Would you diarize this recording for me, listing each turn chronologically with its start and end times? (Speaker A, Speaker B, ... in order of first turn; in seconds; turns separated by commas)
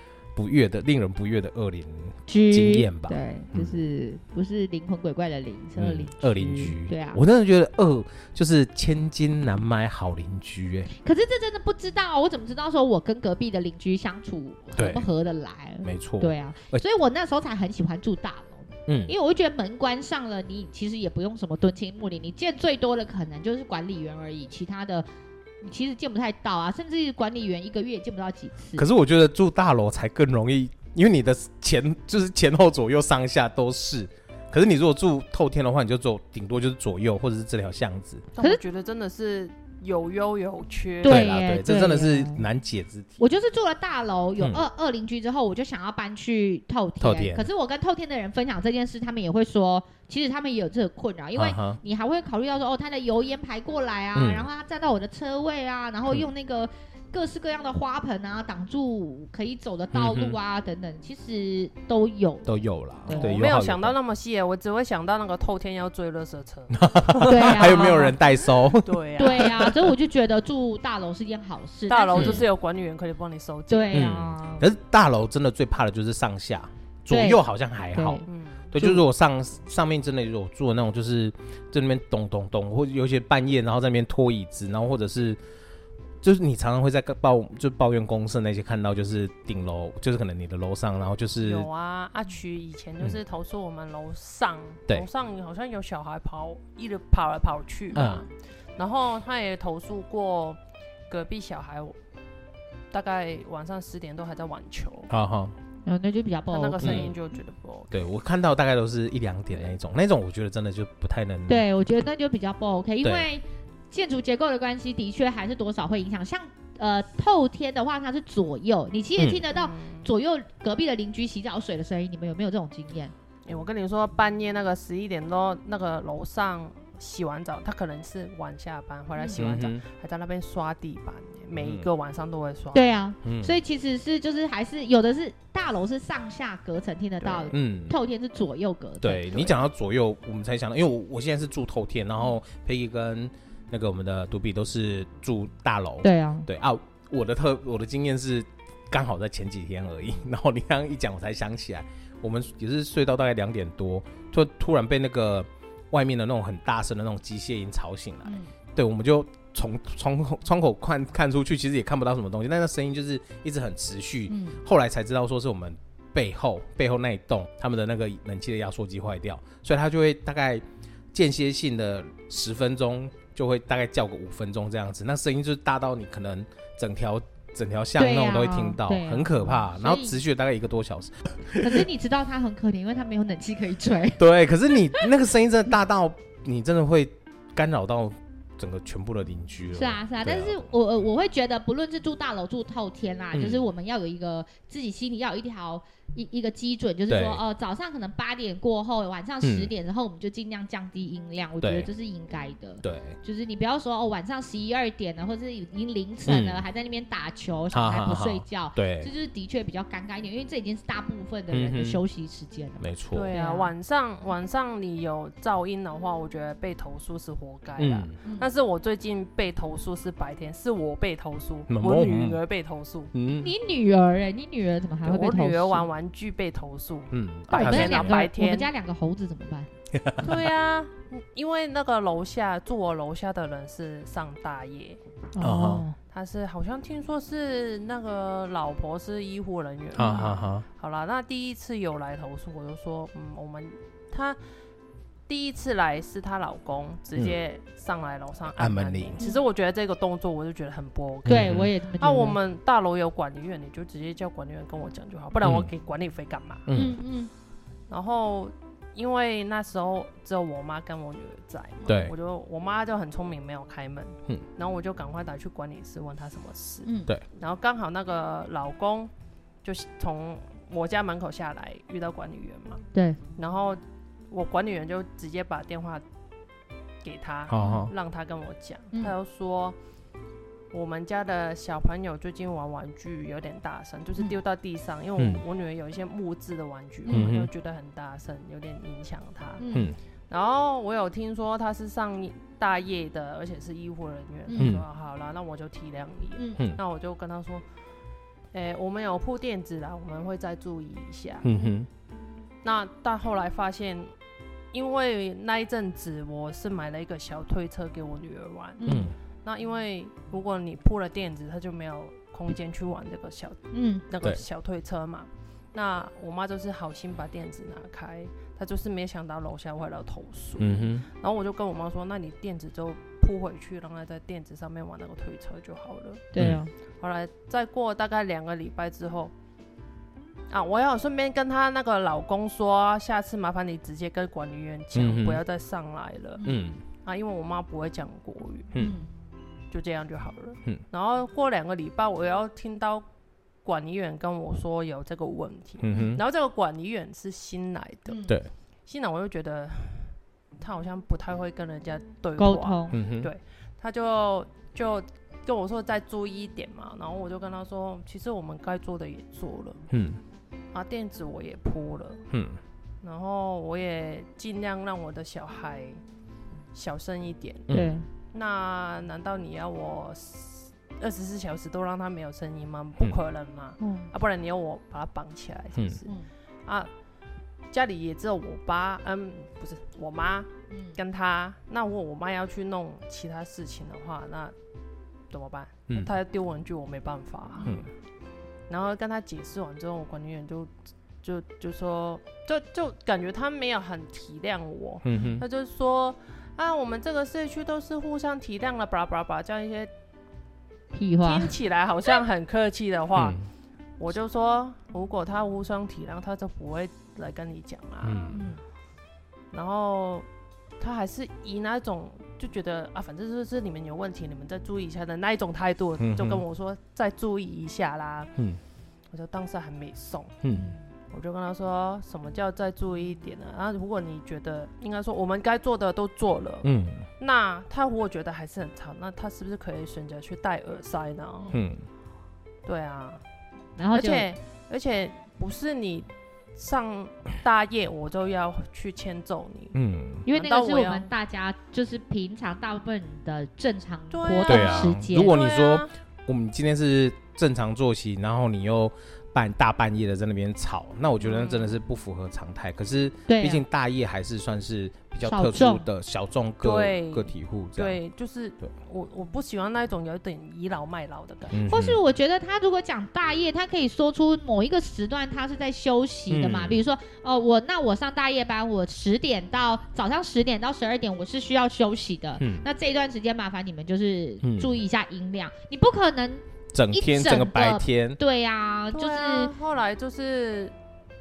Speaker A: 0.4-3.8, Speaker B: 2.3-7.2, Speaker A: 5.8-10.9, Speaker B: 10.9-25.1, Speaker A: 14.8-15.1, Speaker A: 15.8-16.8, Speaker A: 18.9-19.1, Speaker B: 25.6-28.9, Speaker A: 28.8-38.2, Speaker C: 38.3-41.3, Speaker A: 41.0-43.3, Speaker B: 41.0-42.5, Speaker B: 43.2-63.4, Speaker A: 47.0-47.5, Speaker A: 51.4-51.8, Speaker A: 54.1-54.5, Speaker A: 59.9-60.4, Speaker A: 62.5-64.0, Speaker C: 63.1-68.1, Speaker A: 66.7-69.8, Speaker B: 67.2-68.2, Speaker C: 68.7-69.5, Speaker B: 69.2-72.5, Speaker C: 71.9-74.0, Speaker A: 72.2-72.5, Speaker B: 73.7-74.7, Speaker A: 73.9-85.4, Speaker B: 77.1-77.4, Speaker B: 77.9-78.3, Speaker C: 78.3-79.0, Speaker A: 86.2-91.7, Speaker C: 91.4-102.0, Speaker A: 98.0-98.2, Speaker C: 102.9-105.1, Speaker A: 105.1-105.6, Speaker B: 105.8-107.2, Speaker C: 106.5-107.9, Speaker A: 106.8-107.2, Speaker A: 107.9-111.7, Speaker B: 111.5-123.1, Speaker A: 119.2-119.4, Speaker C: 119.5-120.1, Speaker C: 123.5-132.9, Speaker A: 129.3-129.8, Speaker A: 131.6-131.9, Speaker B: 132.7-139.5, Speaker A: 133.2-133.6, Speaker A: 137.4-138.0, Speaker A: 139.0-181.8, Speaker B: 146.0-146.5, Speaker B: 158.2-158.5, Speaker B: 164.3-164.6, Speaker B: 178.0-180.2, Speaker B: 181.5-184.2, Speaker A: 184.2-190.7, Speaker B: 189.7-213.7, Speaker A: 193.3-193.7, Speaker A: 197.1-197.4, Speaker A: 199.4-199.7, Speaker A: 201.6-201.9, Speaker A: 202.8-203.2, Speaker A: 206.3-206.6, Speaker A: 207.7-209.1, Speaker A: 211.5-212.0, Speaker A: 212.8-213.3, Speaker C: 213.1-223.1, Speaker A: 217.8-218.2, Speaker A: 221.7-222.4, Speaker A: 223.1-223.5, Speaker B: 223.3-225.9, Speaker C: 225.0-228.7, Speaker A: 227.1-228.2, Speaker B: 227.5-229.7, Speaker A: 229.9-230.4, Speaker C: 230.2-235.0, Speaker B: 235.3-236.0, Speaker A: 235.4-235.8, Speaker C: 236.1-244.4, Speaker A: 239.9-240.7, Speaker B: 240.0-240.3, Speaker C: 245.3-256.7, Speaker A: 248.6-249.2, Speaker A: 251.3-251.7, Speaker B: 251.3-252.4, Speaker A: 255.4-255.7, Speaker A: 256.7-257.0, Speaker B: 256.7-257.3, Speaker C: 257.9-269.1, Speaker A: 261.9-262.1, Speaker B: 266.8-267.1, Speaker C: 269.6-272.8, Speaker B: 272.9-273.2, Speaker C: 273.4-276.0, Speaker C: 277.0-279.8, Speaker A: 277.5-277.9, Speaker B: 277.6-277.9, Speaker C: 280.7-289.6, Speaker A: 285.2-285.4, Speaker B: 287.1-287.3, Speaker A: 287.1-287.5, Speaker B: 289.6-289.9, Speaker C: 290.3-297.6, Speaker B: 294.5-294.8, Speaker A: 294.6-294.9, Speaker B: 296.4-296.6, Speaker C: 298.5-301.5, Speaker A: 301.4-301.9, Speaker C: 302.6-304.1, Speaker C: 304.7-308.9, Speaker B: 308.8-309.1, Speaker A: 308.9-309.1, Speaker C: 309.4-326.3, Speaker B: 313.7-314.1, Speaker A: 320.6-321.1, Speaker B: 326.3-326.7, Speaker C: 327.0-329.3, Speaker C: 330.5-336.4, Speaker A: 334.9-335.4, Speaker A: 336.4-336.8, Speaker C: 337.0-338.7, Speaker B: 338.8-339.1, Speaker C: 339.7-343.1, Speaker C: 343.6-348.2, Speaker A: 345.8-346.2, Speaker B: 348.1-348.4, Speaker C: 348.9-359.8, Speaker B: 352.4-352.9, Speaker A: 352.9-353.3, Speaker A: 359.9-360.2, Speaker C: 360.7-362.2, Speaker A: 362.3-362.6, Speaker C: 363.0-366.0, Speaker C: 366.7-367.8, Speaker B: 367.7-368.1, Speaker C: 368.3-376.1, Speaker B: 373.8-374.1, Speaker A: 375.8-376.0, Speaker C: 377.7-384.6, Speaker B: 380.7-381.0, Speaker C: 385.3-387.9, Speaker C: 388.7-390.7, Speaker C: 391.2-399.9, Speaker A: 395.0-395.4, Speaker B: 400.9-401.5, Speaker C: 401.2-403.4, Speaker A: 403.2-403.5, Speaker C: 404.0-408.4, Speaker A: 408.0-408.4, Speaker B: 408.3-408.6, Speaker C: 409.5-410.3, Speaker C: 410.8-418.3, Speaker A: 416.0-416.4, Speaker C: 419.1-420.4, Speaker A: 420.4-420.8, Speaker C: 421.1-431.5, Speaker A: 426.6-427.1, Speaker B: 431.4-431.7, Speaker A: 431.5-431.8, Speaker C: 432.6-433.2, Speaker B: 433.8-434.3, Speaker C: 433.9-441.1, Speaker A: 439.7-440.2, Speaker B: 440.3-445.4, Speaker C: 444.1-445.9, Speaker A: 444.5-458.0, Speaker C: 451.2-451.8, Speaker B: 453.3-453.6, Speaker B: 455.2-455.9, Speaker C: 456.6-461.6, Speaker A: 461.5-462.0, Speaker B: 461.7-479.5, Speaker A: 466.3-466.8, Speaker A: 472.4-472.7, Speaker A: 474.4-474.8, Speaker A: 476.7-478.2, Speaker C: 478.9-480.7